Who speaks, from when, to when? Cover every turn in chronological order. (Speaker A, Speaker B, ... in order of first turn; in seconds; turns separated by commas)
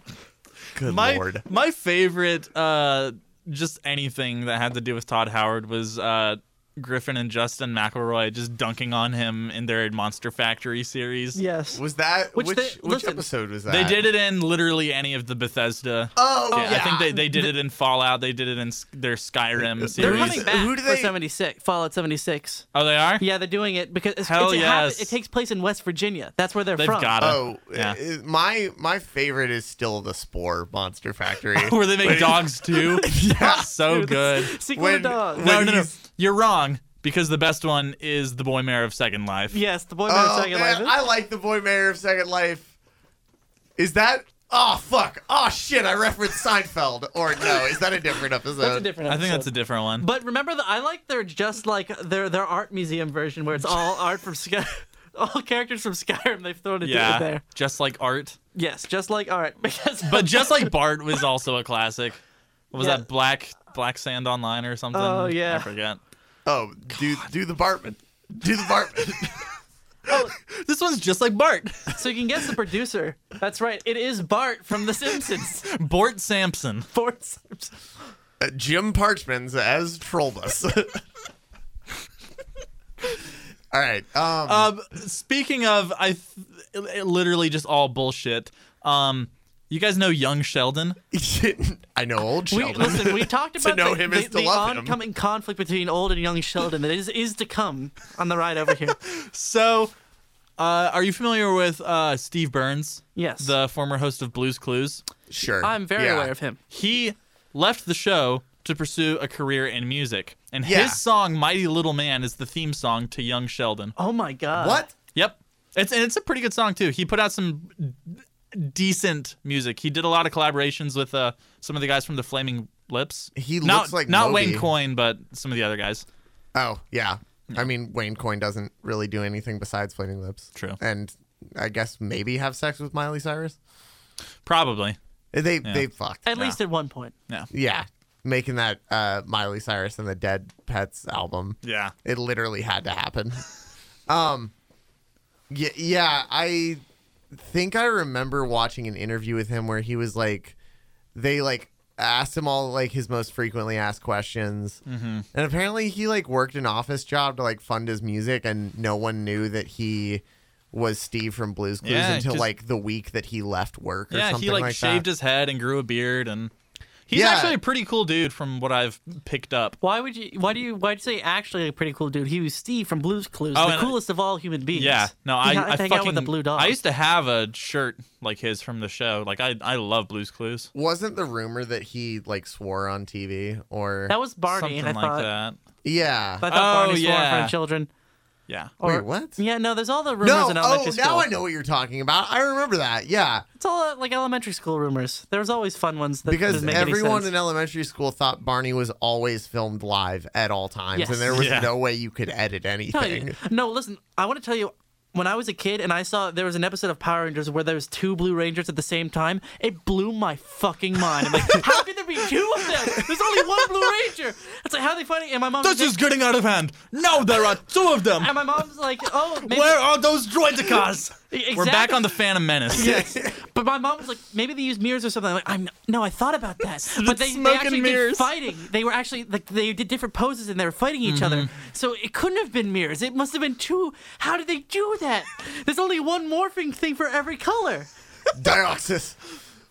Speaker A: 0.7-1.4, Speaker B: 0.8-11.4, Speaker C: 11.3-11.8, Speaker A: 11.7-14.0, Speaker C: 12.3-13.2, Speaker B: 13.7-20.5, Speaker A: 16.1-17.5, Speaker C: 16.5-16.9, Speaker A: 19.6-21.1, Speaker C: 20.0-22.7, Speaker B: 22.7-23.2, Speaker C: 23.2-27.2, Speaker B: 24.2-25.1, Speaker B: 26.8-28.0, Speaker A: 27.2-33.7, Speaker B: 31.6-34.5, Speaker C: 32.7-35.5, Speaker A: 34.7-35.9, Speaker B: 35.4-39.6, Speaker C: 39.5-40.9, Speaker A: 40.1-42.7, Speaker A: 43.8-48.9, Speaker C: 48.6-57.4, Speaker B: 49.1-50.0, Speaker B: 56.8-58.4, Speaker C: 58.5-60.7, Speaker B: 60.0-62.2, Speaker B: 62.7-66.0, Speaker C: 62.8-63.0, Speaker C: 64.9-65.7, Speaker A: 66.5-69.5, Speaker B: 70.5-72.0, Speaker C: 71.9-75.7, Speaker B: 75.7-76.9, Speaker C: 76.9-77.8, Speaker A: 78.4-81.0, Speaker A: 83.7-84.7, Speaker B: 84.5-91.0, Speaker A: 91.1-95.0, Speaker C: 92.5-99.0, Speaker B: 99.0-99.9, Speaker B: 100.6-105.0, Speaker C: 103.1-103.5, Speaker A: 105.3-106.3, Speaker C: 105.6-106.6, Speaker B: 106.7-113.9, Speaker A: 110.6-111.0, Speaker C: 114.0-114.8, Speaker A: 114.5-114.9, Speaker B: 115.1-126.0, Speaker A: 123.3-124.7, Speaker A: 126.5-133.6, Speaker B: 134.4-135.0, Speaker A: 135.3-136.3, Speaker B: 135.6-136.6, Speaker C: 136.3-137.1, Speaker A: 137.5-143.4, Speaker B: 141.6-141.9, Speaker A: 144.1-144.5, Speaker A: 145.5-150.6, Speaker A: 151.1-154.8, Speaker B: 154.8-155.3, Speaker A: 155.3-165.1, Speaker B: 161.8-162.5, Speaker B: 164.1-166.5, Speaker B: 167.1-169.8, Speaker A: 167.1-167.6, Speaker C: 169.8-176.8, Speaker B: 173.6-174.0, Speaker B: 174.7-180.7, Speaker A: 180.7-184.1, Speaker C: 184.1-185.3, Speaker B: 184.5-185.6, Speaker A: 185.8-186.4, Speaker C: 186.4-187.9, Speaker B: 186.5-187.5, Speaker C: 188.8-191.3, Speaker A: 188.8-189.4, Speaker A: 190.2-193.4, Speaker C: 193.6-197.3, Speaker A: 196.3-203.3, Speaker B: 196.5-196.8, Speaker C: 200.9-201.3, Speaker B: 201.3-201.7, Speaker C: 202.9-215.9, Speaker A: 212.8-213.6, Speaker B: 215.6-218.5, Speaker C: 218.2-219.8, Speaker B: 219.4-223.0, Speaker C: 221.3-222.1, Speaker C: 222.7-237.9, Speaker A: 222.7-223.4, Speaker B: 226.8-228.3, Speaker B: 231.1-231.5, Speaker A: 238.3-239.2